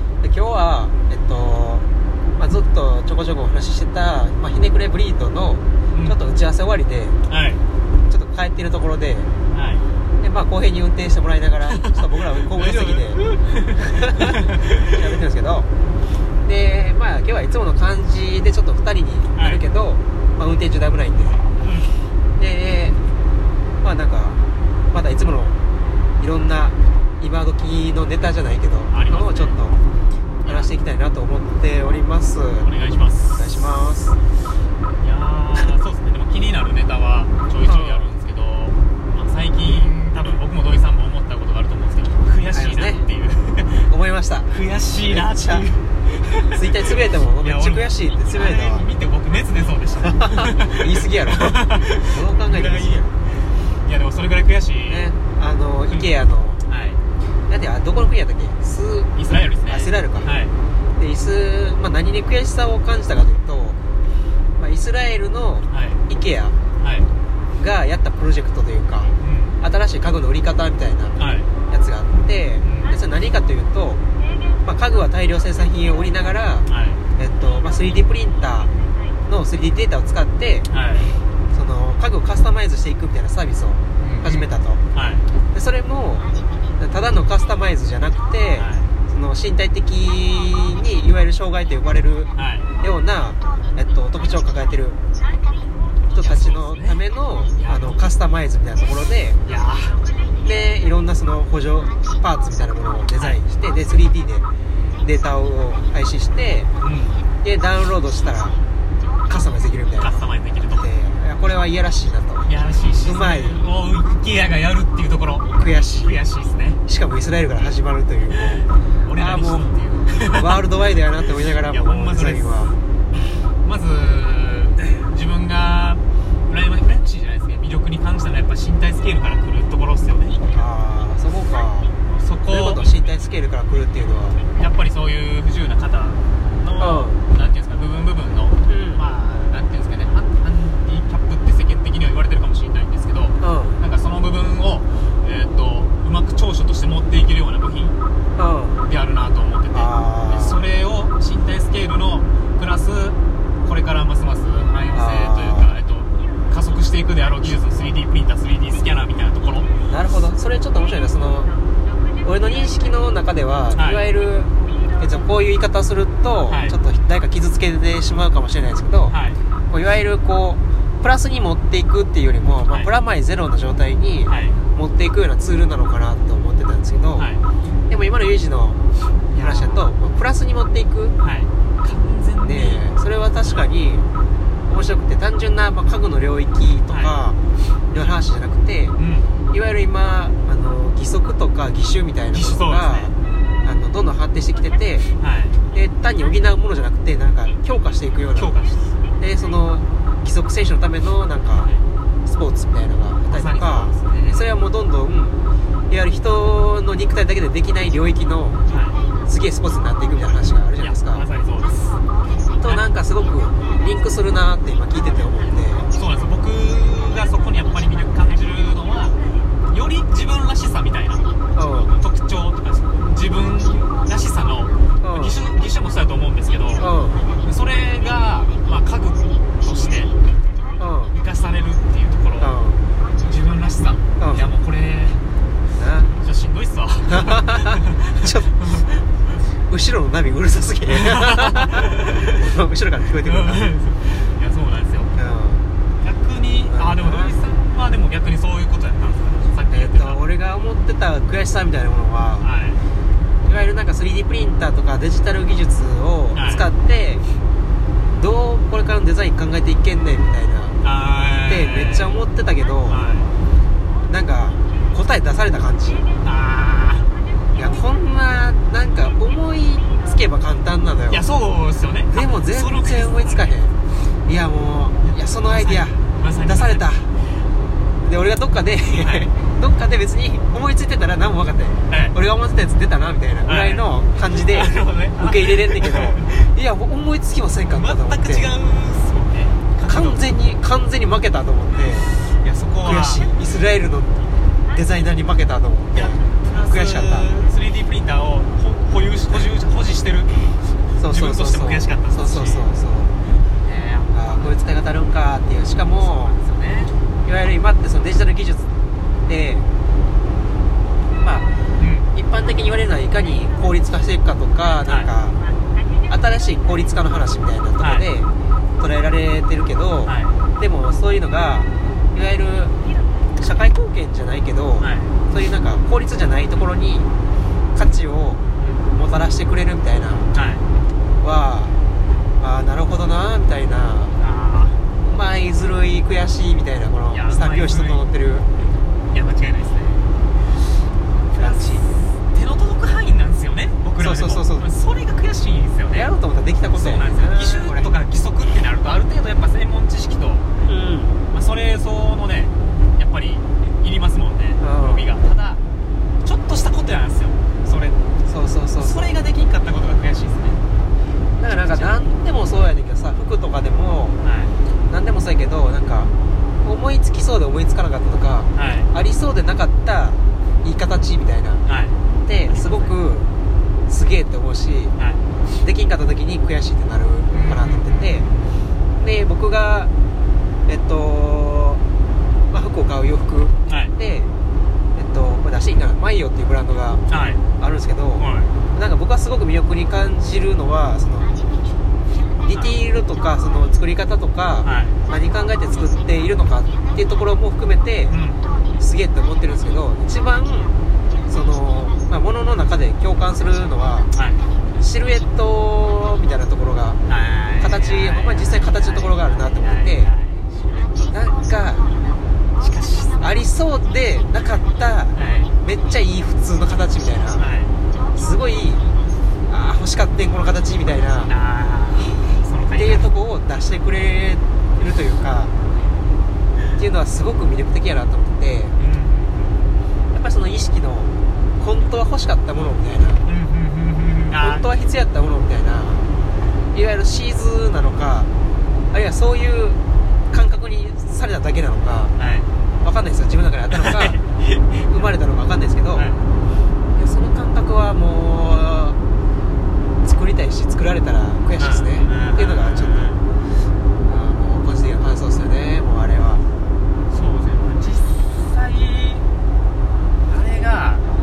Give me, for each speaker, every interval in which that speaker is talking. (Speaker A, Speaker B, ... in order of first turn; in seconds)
Speaker A: 0.2-1.9, 2.4-7.2, 8.1-9.3, 10.2-13.2, 13.8-15.7, 16.4-21.5, 22.4-23.0, 23.8-24.4, 24.9-25.5, 26.2-29.8, 30.4-32.7, 33.3-34.1, 37.6-38.1, 42.5-43.0, 43.9-44.5, 45.1-45.7, 46.5-48.9, 50.2-53.1, 54.9-56.6, 57.5-60.3, 61.0-63.8, 64.6-66.6, 67.6-71.2, 71.7-74.0, 74.6-78.7, 79.3-80.7, 81.5-84.8, 85.5-95.0, 96.1-99.4, 100.4-104.5, 105.0-106.7, 107.4-108.6, 109.3-110.2, 110.8-112.5, 113.0-113.6, 115.5-116.1, 116.9-118.6, 119.1-119.7, 120.3-122.7, 130.5-131.9, 132.5-134.4, 136.8-137.2, 138.6-139.0, 143.4-143.8, 148.3-148.8, 149.7-150.6, 154.9-155.7, 159.9-161.5, 162.2-169.2, 169.7-177.3, 177.9-178.8, 179.3-181.1, 182.4-184.1, 184.7-187.4, 187.9-188.9, 189.5-195.1, 195.7-198.5, 199.2-201.7, 202.2-205.4, 205.9-208.6, 209.2-211.2, 212.6-215.9, 221.6-222.0, 225.0-225.4, 226.8-227.2, 230.8-231.2, 232.4-232.8, 234.2-234.5, 235.8-236.1, 237.1-238.5, 239.7-243.7, 245.1-245.6, 246.6-247.3, 249.7-252.5, 253.4-257.2, 258.1-260.8, 261.5-263.0, 264.1-266.1, 267.5-271.2, 272.1-277.1, 278.0-288.5, 289.9-292.1, 292.8-297.3, 301.0-303.1, 304.1-306.4, 307.2-308.7, 309.2-309.6, 311.2-311.5, 312.1-315.4, 316.1-322.7, 323.4-327.1, 327.7-330.3, 331.2-331.8, 332.4-334.1, 335.0-338.5, 341.4-341.9, 344.0-344.7, 345.9-347.9, 350.6-351.2, 354.6-355.1, 358.2-359.1, 361.4-364.1, 364.9-366.1, 366.6-371.6, 372.2-373.3, 373.9-374.9, 375.6-378.3, 379.0-379.9, 380.7-381.8, 382.5-384.3, 384.9-387.0, 387.6-391.3, 392.4-398.1, 398.8-400.7, 401.3-404.1, 404.8-407.0, 407.6-410.1, 411.1-411.9, 413.1-417.4, 418.1-418.9, 419.5-421.3, 422.8-425.5, 426.8-428.8, 430.1-433.2, 434.4-436.0, 436.7-438.3, 438.9-439.8, 440.3-442.1, 442.8-444.2, 444.9-446.1, 446.9-449.0, 450.0-453.2, 454.0-456.4
Speaker B: 5.9-6.2, 7.3-7.6, 9.5-9.8, 12.5-14.9, 19.3-19.6, 21.6-22.0, 28.9-29.6, 30.4-30.7, 32.6-33.4, 35.0-43.9, 44.5-46.6, 47.4-55.1, 56.6-57.0, 59.1-60.5, 65.7-66.0, 66.8-67.1, 69.2-69.6, 71.2-71.5, 72.6-72.9, 76.7-77.0, 80.7-81.1, 84.0-85.2, 88.5-88.9, 92.3-92.7, 96.2-97.0, 97.6-97.9, 99.4-100.0, 106.8-107.2, 110.0-110.9, 112.5-116.8, 119.0-120.6, 121.7-122.7, 123.6-130.4, 132.1-132.8, 134.5-147.9, 148.8-159.7, 163.7-164.0, 166.5-166.8, 169.1-169.4, 174.3-174.6, 177.2-177.4, 179.3-179.8, 181.2-182.8, 186.9-187.2, 188.9-189.3, 192.3-193.1, 195.2-195.6, 198.3-198.9, 201.6-201.8, 203.3-204.5, 208.7-209.0, 210.8-212.0, 215.9-219.2, 219.7-221.2, 222.0-226.9, 227.4-230.1, 231.1-232.5, 233.2-235.2, 236.2-238.9, 240.9-242.3, 243.2-245.1, 246.0-250.2, 252.4-252.8, 256.3-256.6, 260.8-262.1, 262.9-263.3, 266.2-267.1, 271.1-273.6, 275.0-276.8, 278.9-279.3, 281.9-282.1, 283.4-283.9, 284.5-286.2, 287.7-290.2, 292.3-293.4, 295.9-300.3, 301.0-302.6, 303.4-304.6, 305.9-306.9, 311.8-312.1, 314.8-315.1, 317.8-318.1, 320.0-320.4, 324.8-325.4, 328.6-328.9, 330.3-330.7, 334.2-334.8, 337.1-338.0, 339.1-340.1, 341.3-346.1, 346.6-350.4, 351.3-355.6, 356.2-358.1, 358.8-360.6, 361.5-362.0, 364.2-364.5, 368.5-368.9, 371.6-372.9, 374.9-375.2, 377.3-378.6, 383.7-383.9, 387.1-387.4, 388.2-388.5, 394.6-395.0, 398.1-398.4, 404.1-404.4, 407.1-411.1, 412.6-413.2, 415.1-415.5, 417.4-417.7, 421.2-423.1, 428.8-429.7, 433.2-434.6, 442.1-442.5, 443.7-445.1, 445.9-446.2, 451.6-453.2, 457.1-459.3, 460.3-461.1